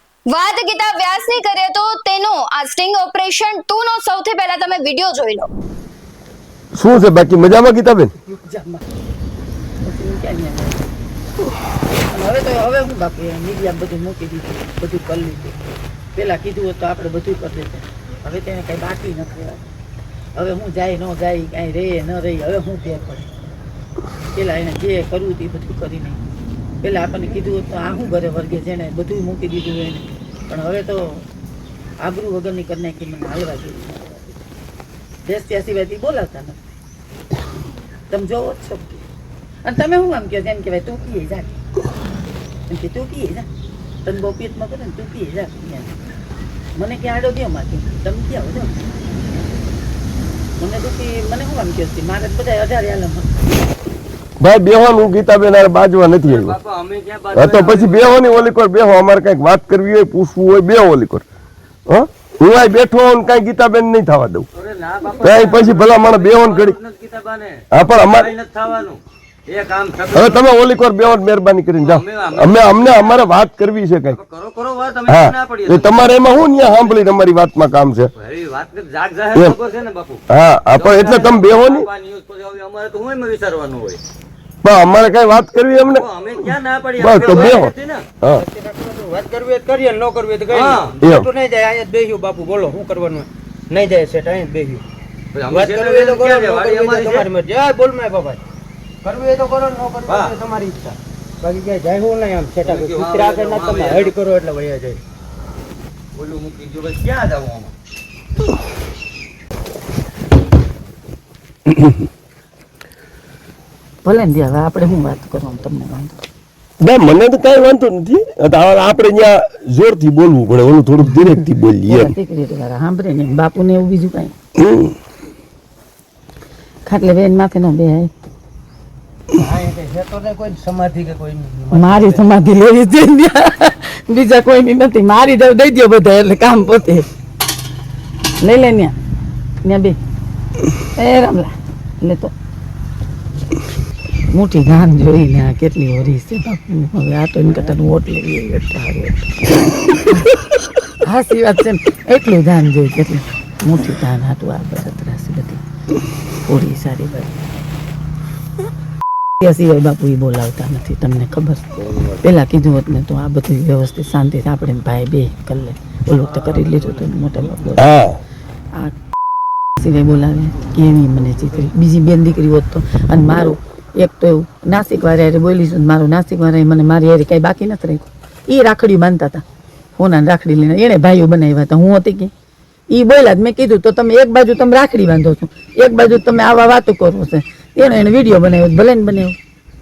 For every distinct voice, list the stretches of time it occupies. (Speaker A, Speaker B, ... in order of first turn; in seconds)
Speaker A: 0.3-5.5
Speaker B: 6.7-8.1, 54.4-56.6, 57.3-61.2, 61.9-64.5, 65.1-66.8, 67.7-68.3, 70.1-74.2, 75.1-78.1, 80.3-81.9, 84.6-86.1, 87.0-88.4, 91.0-91.3, 116.8-122.1, 124.5-124.9, 167.8-168.2
Speaker C: 8.2-8.8, 9.8-10.8, 12.1-15.6, 16.1-19.6, 20.4-23.3, 24.3-26.2, 26.8-31.2, 32.0-34.3, 35.2-36.6, 38.1-39.0, 39.6-41.6, 42.7-43.5, 44.0-45.9, 46.8-49.5, 50.6-53.4, 114.0-116.2, 121.9-124.3, 126.8-128.1, 131.7-137.1, 138.4-138.9, 139.6-140.0, 140.9-142.3, 144.3-149.4, 151.0-155.6, 156.4-157.4, 159.4-167.8, 169.8-179.4, 180.0-182.3, 182.9-189.3
Speaker D: 56.2-58.5, 64.5-70.4, 71.8-73.3, 74.1-77.0, 78.2-84.0, 85.8-88.1, 90.5-91.0, 95.3-97.3, 100.0-100.4, 102.6-104.2, 106.1-107.7
Speaker E: 88.4-94.8, 95.5-98.4, 99.0-105.0, 129.3-132.1